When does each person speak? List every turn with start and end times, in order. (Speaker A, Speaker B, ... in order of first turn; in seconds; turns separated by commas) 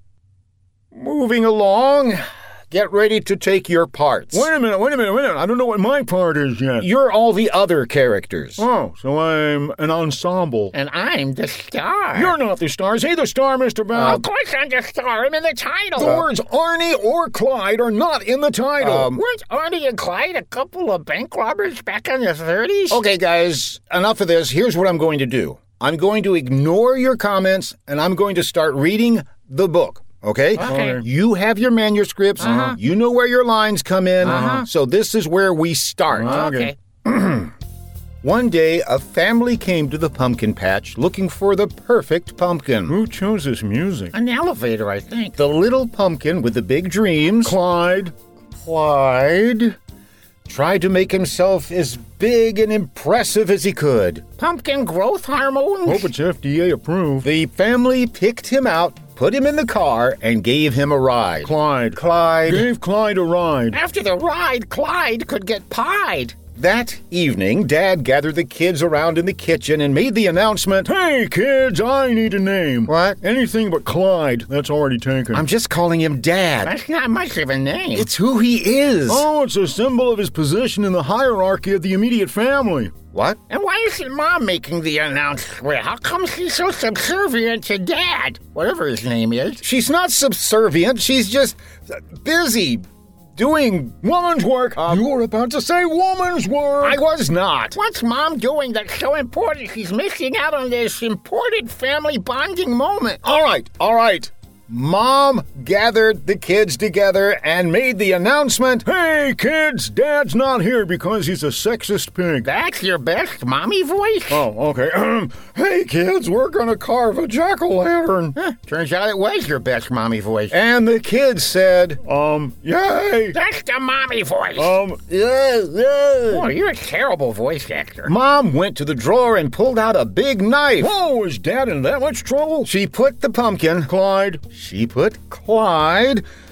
Speaker A: 0.9-4.5, Speaker B: 4.3-6.9, Speaker A: 6.8-8.6, Speaker B: 8.6-10.7, Speaker C: 10.7-12.4, Speaker B: 12.1-14.2, Speaker C: 13.9-16.2, Speaker A: 16.0-16.3, Speaker B: 16.0-19.1, Speaker A: 18.8-19.2, Speaker C: 18.8-23.0, Speaker A: 22.9-37.5, Speaker C: 30.6-31.0, Speaker B: 30.6-31.0, Speaker C: 32.4-32.8, Speaker C: 34.2-34.6, Speaker B: 34.2-34.5, Speaker B: 36.1-36.7, Speaker C: 36.2-36.8, Speaker A: 38.2-43.0, Speaker B: 42.9-44.1, Speaker C: 44.1-45.4, Speaker A: 45.4-47.6, Speaker B: 47.4-48.1, Speaker A: 48.6-49.8, Speaker A: 50.5-54.2, Speaker C: 54.4-56.1, Speaker B: 55.9-57.3, Speaker A: 57.2-62.7, Speaker B: 61.4-63.8, Speaker C: 63.7-66.4, Speaker A: 66.5-70.9, Speaker B: 70.8-75.4, Speaker A: 72.8-73.2, Speaker A: 75.3-76.7, Speaker C: 76.6-78.1, Speaker A: 77.9-79.2, Speaker B: 79.1-82.9, Speaker A: 83.1-83.4, Speaker C: 83.5-89.6, Speaker A: 89.6-92.8, Speaker A: 93.3-95.0, Speaker B: 94.1-97.0, Speaker A: 96.8-97.8, Speaker C: 97.7-103.2, Speaker A: 103.2-108.9, Speaker B: 108.8-112.5, Speaker C: 112.4-114.4, Speaker B: 114.3-118.3, Speaker C: 118.4-120.5, Speaker A: 120.5-122.0, Speaker B: 122.0-123.3, Speaker C: 123.3-124.8, Speaker B: 124.5-126.2, Speaker A: 125.3-126.4, Speaker C: 126.3-128.1, Speaker A: 128.0-130.9, Speaker B: 130.8-132.7, Speaker A: 132.6-136.2, Speaker B: 133.9-134.4